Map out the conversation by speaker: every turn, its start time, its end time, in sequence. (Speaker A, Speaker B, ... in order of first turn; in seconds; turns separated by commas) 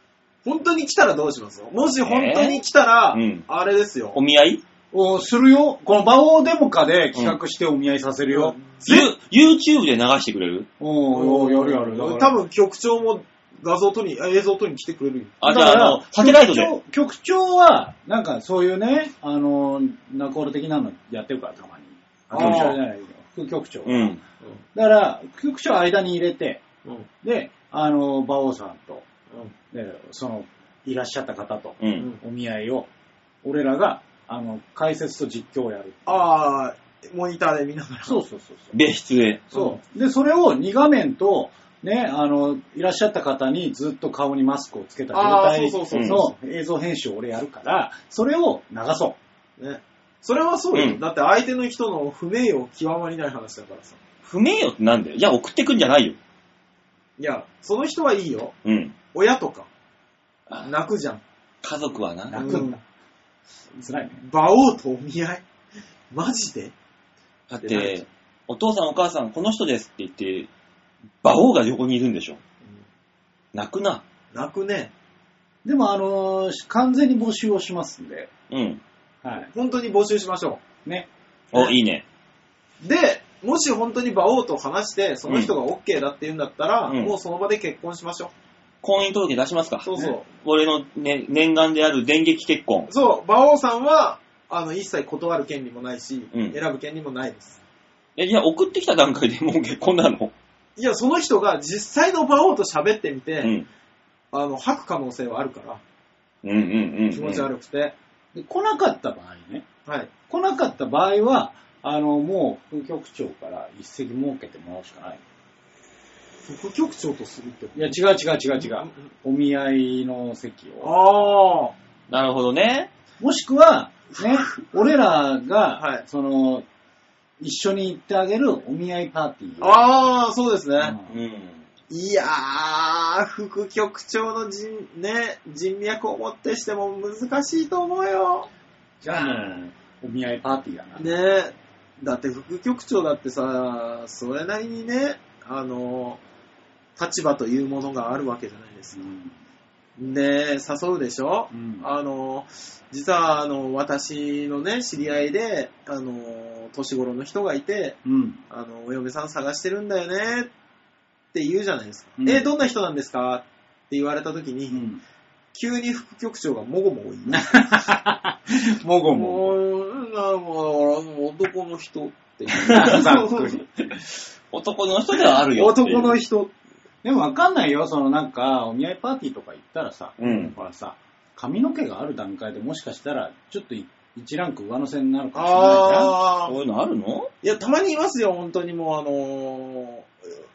Speaker A: 0.5-4.2, Speaker B: 2.0-2.6, Speaker B: 3.1-3.5, Speaker B: 4.1-4.6, Speaker C: 4.9-8.6, Speaker A: 8.3-9.1, Speaker B: 8.8-10.7, Speaker C: 10.8-12.4, Speaker A: 11.1-15.4, Speaker B: 15.4-16.7, Speaker C: 15.4-24.2, Speaker A: 22.3-22.8, Speaker B: 22.4-22.8, Speaker B: 23.9-24.2, Speaker C: 24.8-26.6, Speaker C: 27.2-29.1, Speaker C: 29.7-32.9, Speaker B: 31.8-32.1, Speaker C: 33.4-36.2, Speaker A: 36.1-38.2, Speaker C: 38.0-38.8, Speaker B: 38.7-39.5, Speaker C: 39.5-49.2, Speaker A: 39.5-39.8, Speaker A: 45.1-46.3, Speaker B: 45.9-46.2, Speaker A: 49.6-54.0, Speaker B: 50.7-51.0, Speaker B: 54.2-56.2, Speaker A: 57.2-58.6, Speaker B: 58.6-59.0, Speaker A: 59.1-59.7, Speaker A: 60.6-61.2, Speaker B: 61.6-62.6, Speaker C: 62.3-62.8, Speaker A: 62.3-62.8, Speaker C: 63.8-64.2, Speaker A: 64.2-65.5, Speaker A: 66.1-66.7, Speaker B: 67.5-70.5, Speaker A: 67.6-68.1, Speaker B: 71.2-72.4, Speaker B: 73.5-74.0, Speaker A: 74.3-74.9, Speaker C: 75.6-78.3, Speaker B: 78.5-78.8, Speaker C: 79.2-79.5, Speaker A: 79.5-80.6, Speaker B: 81.5-82.0, Speaker A: 82.8-88.3, Speaker B: 85.3-85.5, Speaker B: 86.9-87.1, Speaker B: 88.8-92.9, Speaker A: 89.9-90.2, Speaker A: 92.9-97.6, Speaker B: 98.2-100.3, Speaker A: 100.8-103.5, Speaker B: 103.4-103.7, Speaker A: 104.3-105.8, Speaker B: 106.4-107.5, Speaker A: 107.1-108.0, Speaker C: 108.3-109.7, Speaker A: 109.9-110.1, Speaker C: 110.3-115.2, Speaker A: 116.5-118.0, Speaker C: 117.8-120.9, Speaker A: 118.6-118.9, Speaker A: 120.8-121.7, Speaker B: 122.1-122.9, Speaker C: 123.2-126.7, Speaker A: 124.2-124.5, Speaker C: 127.4-129.8, Speaker A: 129.6-131.0, Speaker C: 130.8-131.2, Speaker B: 131.1-131.6, Speaker A: 131.9-138.5, Speaker C: 139.0-141.1, Speaker A: 141.0-146.2, Speaker A: 147.0-149.0, Speaker C: 148.9-149.4, Speaker A: 150.0-158.0, Speaker C: 151.5-151.9, Speaker C: 158.1-158.4, Speaker A: 158.5-160.5, Speaker A: 161.3-164.8, Speaker C: 162.2-162.5, Speaker C: 164.7-165.0, Speaker A: 165.5-167.8, Speaker C: 167.3-169.6, Speaker A: 169.1-173.7, Speaker B: 172.6-173.0, Speaker C: 172.7-173.7, Speaker B: 174.5-176.2, Speaker A: 175.3-176.5, Speaker C: 177.0-186.1, Speaker B: 180.2-180.6, Speaker A: 185.3-186.5, Speaker B: 186.5-187.3, Speaker A: 187.4-190.3